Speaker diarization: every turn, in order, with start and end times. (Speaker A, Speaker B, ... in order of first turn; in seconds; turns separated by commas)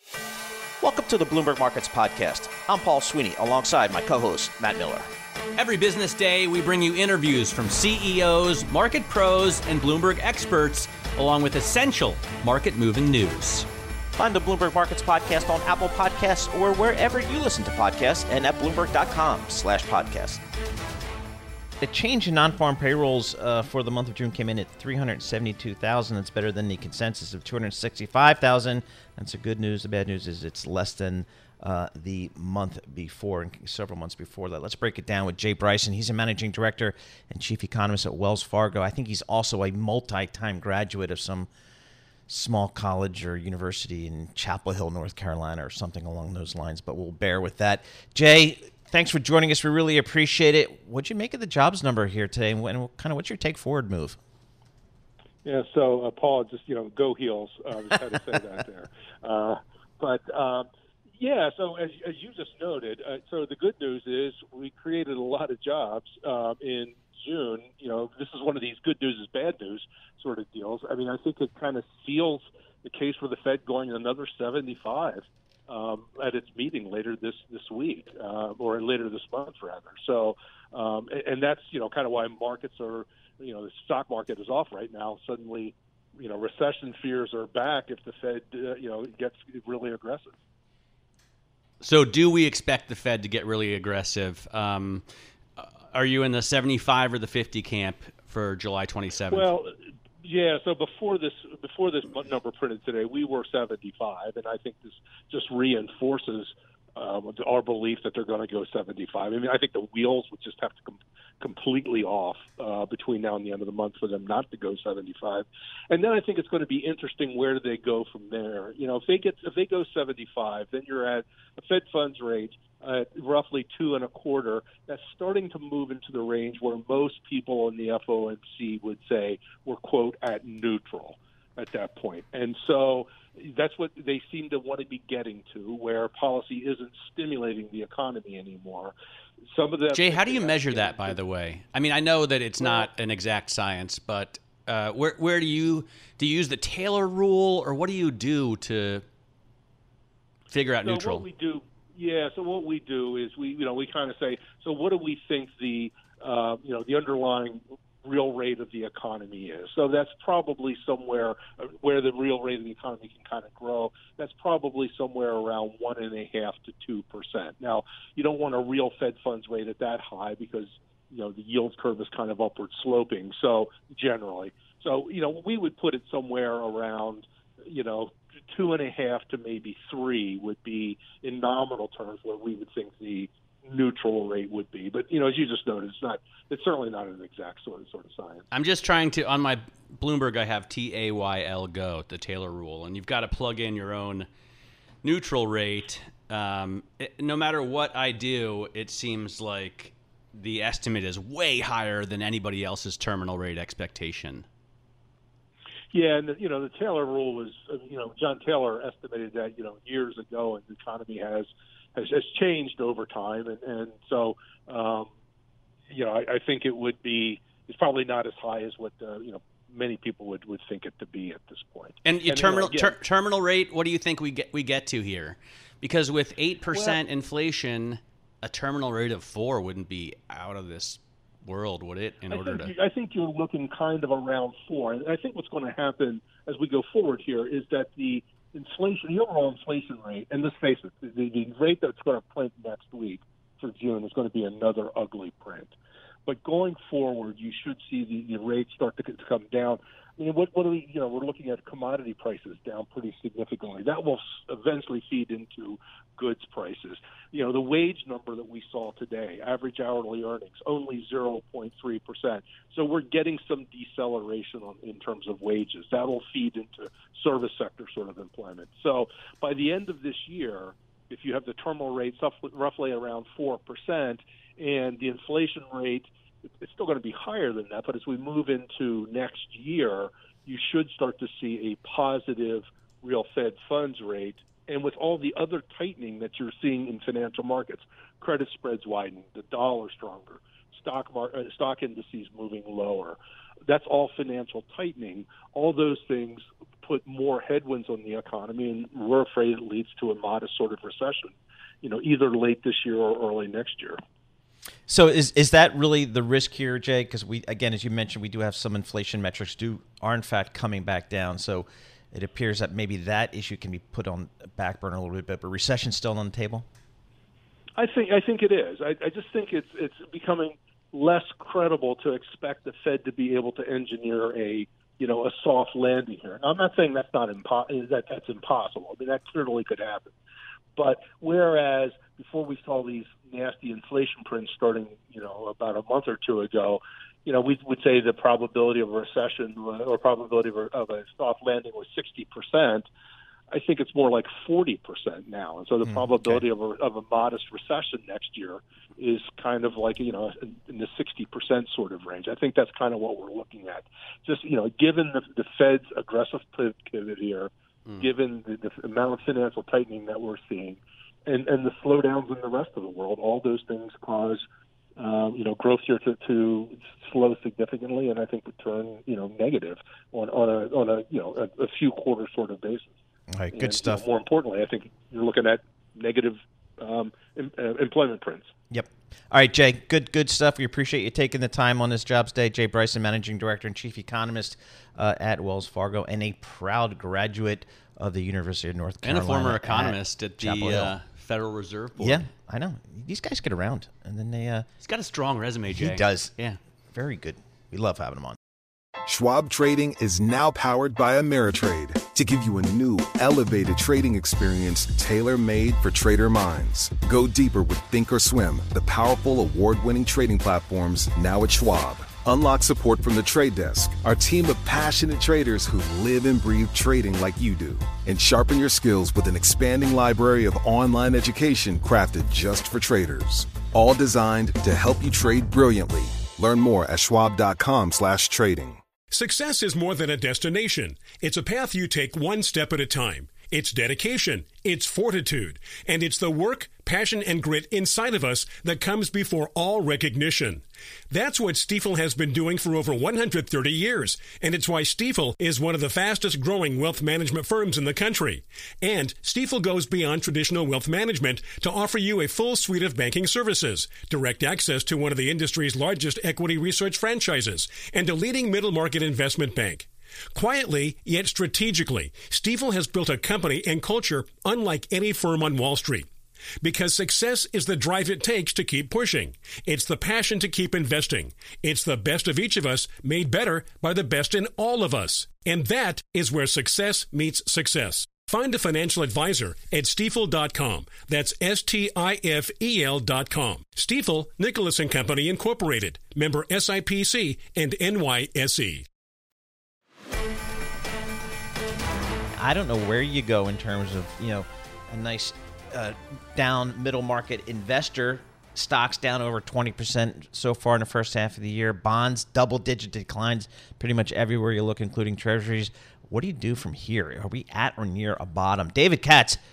Speaker A: 0.8-5.1, Speaker B: 5.5-13.7, Speaker A: 14.2-20.4, Speaker A: 21.8-41.5, Speaker A: 42.3-54.2, Speaker C: 55.4-90.3, Speaker B: 91.8-95.0, Speaker B: 95.6-99.5, Speaker C: 99.3-138.9, Speaker C: 139.5-141.2, Speaker B: 139.9-149.0, Speaker C: 142.6-142.9, Speaker B: 150.5-151.2, Speaker C: 150.8-188.4, Speaker B: 188.5-194.3, Speaker B: 195.0-204.4, Speaker C: 205.9-215.1, Speaker C: 215.9-222.9, Speaker B: 222.0-232.7, Speaker C: 226.7-227.0, Speaker C: 232.3-245.7, Speaker C: 246.2-304.0, Speaker A: 304.9-316.6, Speaker C: 317.8-330.1, Speaker C: 330.8-342.9, Speaker C: 343.5-364.4, Speaker A: 345.9-346.4, Speaker C: 365.0-372.9, Speaker A: 373.3-374.0, Speaker C: 373.5-378.5, Speaker A: 378.7-390.9, Speaker B: 389.0-392.2, Speaker A: 392.0-394.7, Speaker B: 394.8-396.6, Speaker A: 395.7-396.3, Speaker A: 396.9-398.4, Speaker D: 399.1-428.8, Speaker E: 429.1-466.1, Speaker E: 466.6-488.8, Speaker A: 492.4-509.4